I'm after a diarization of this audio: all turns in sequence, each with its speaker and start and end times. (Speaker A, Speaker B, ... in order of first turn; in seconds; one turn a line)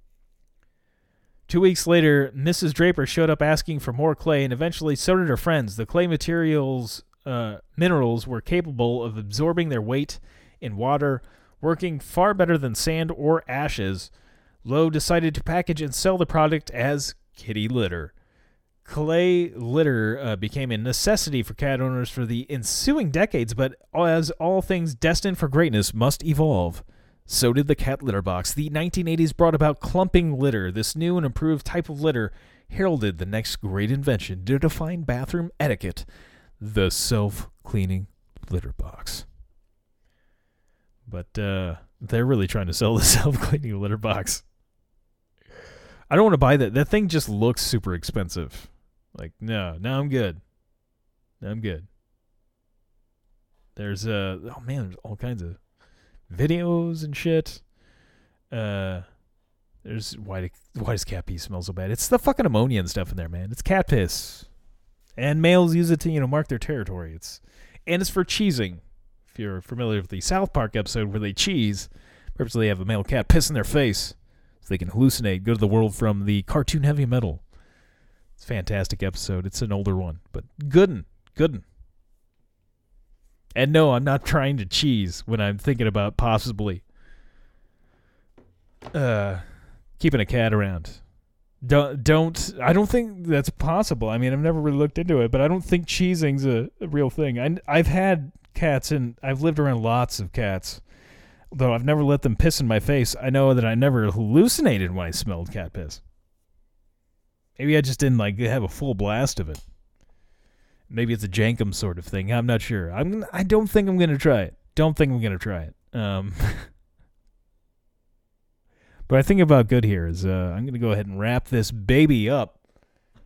Speaker A: 1.5-14.1
Speaker A: 14.7-18.1
Speaker A: 18.8-36.1
Speaker A: 36.6-39.3
Speaker A: 41.1-44.4
Speaker A: 46.1-50.4
Speaker A: 51.4-51.9
Speaker A: 53.8-55.6
Speaker A: 56.3-57.6
Speaker A: 58.5-59.0
Speaker A: 59.9-64.5
Speaker A: 65.2-77.4
Speaker A: 78.4-81.6
Speaker A: 83.6-86.8
Speaker A: 88.9-89.5
Speaker A: 90.0-91.0
Speaker A: 91.6-100.8
Speaker A: 101.5-106.0
Speaker A: 107.6-109.6
Speaker A: 110.9-116.7
Speaker A: 119.1-122.6